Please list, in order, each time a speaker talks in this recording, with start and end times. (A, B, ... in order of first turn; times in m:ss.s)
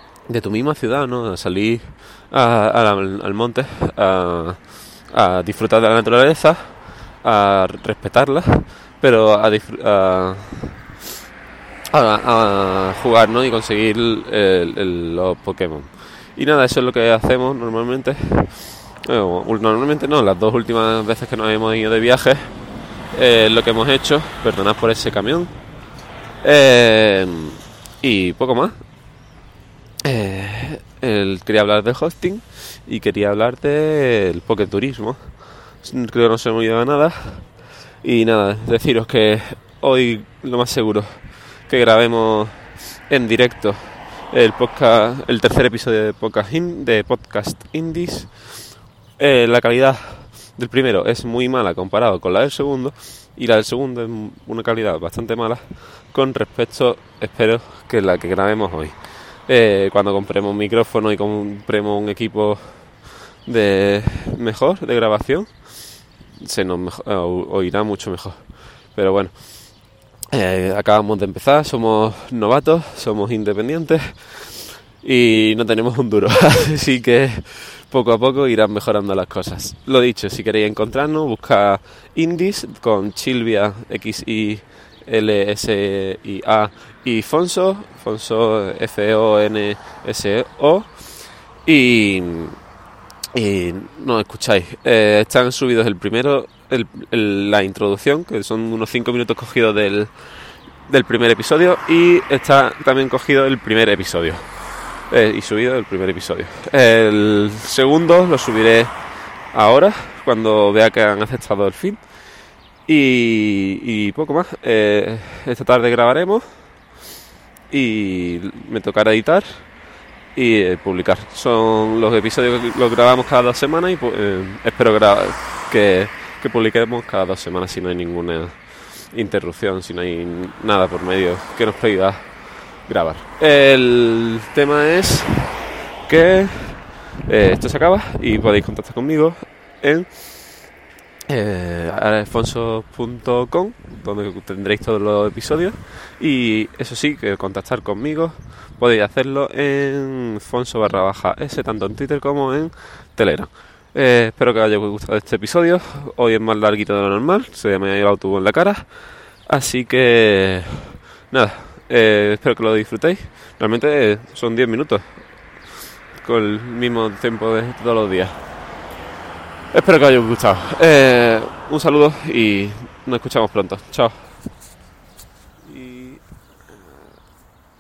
0:00.3-0:10.8 A
0:11.9-0:22.6 A
0:23.1-0:25.5 A
0:26.4-0:28.8 A
0:30.0-1:09.8 A
1:10.3-1:32.6 A
1:33.3-1:52.3 A
1:52.8-1:56.8 A
1:57.7-1:59.8 A
2:00.3-2:15.5 A
2:16.1-2:20.6 A
2:21.3-2:48.5 A
2:49.7-2:54.5 A
2:55.6-2:57.1 A